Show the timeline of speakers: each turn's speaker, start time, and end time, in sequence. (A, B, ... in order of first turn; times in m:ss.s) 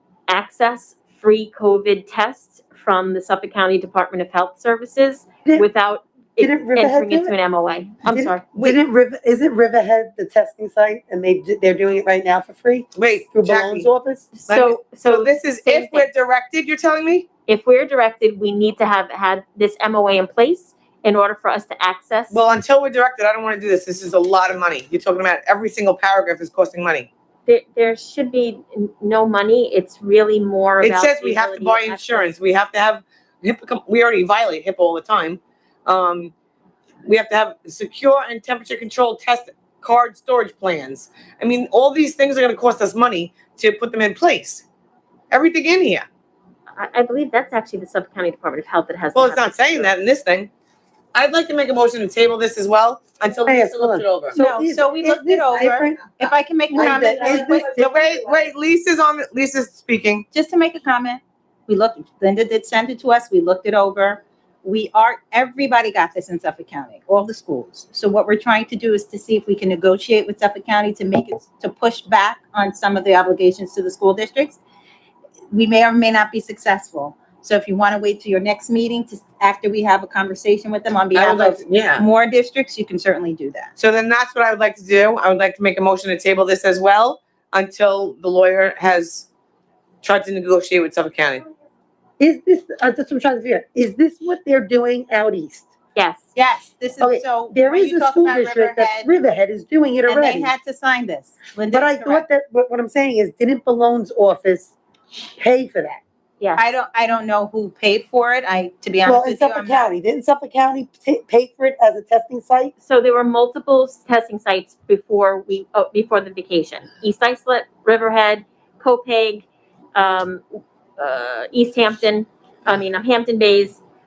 0:00.3-0:08.7 A
0:06.4-0:07.3 B
0:08.1-0:14.3 B
0:12.9-0:13.9 C
0:14.3-0:16.1 A
0:14.5-0:17.3 C
0:17.5-0:22.4 A
0:22.3-0:27.1 C
0:27.4-0:32.3 A
0:30.8-0:36.3 C
0:37.0-0:44.6 C
0:45.3-0:46.0 C
0:46.8-0:49.8 A
0:49.1-0:50.5 C
0:51.1-0:54.4 C
0:53.4-0:58.0 B
0:54.3-0:57.7 D
0:57.7-1:00.2 C
1:00.3-1:14.6 D
1:15.5-1:23.7 D
1:21.1-1:22.0 C
1:23.8-1:29.3 C
1:30.0-1:31.4 C
1:32.2-1:35.7 B
1:36.0-1:36.3 A
1:36.3-1:39.1 D
1:37.0-1:40.5 B
1:40.0-1:42.2 D
1:41.7-1:44.7 B
1:45.4-1:46.0 B
1:46.6-1:49.9 D
1:49.0-1:52.7 B
1:52.8-2:00.4 A
2:01.0-2:03.8 A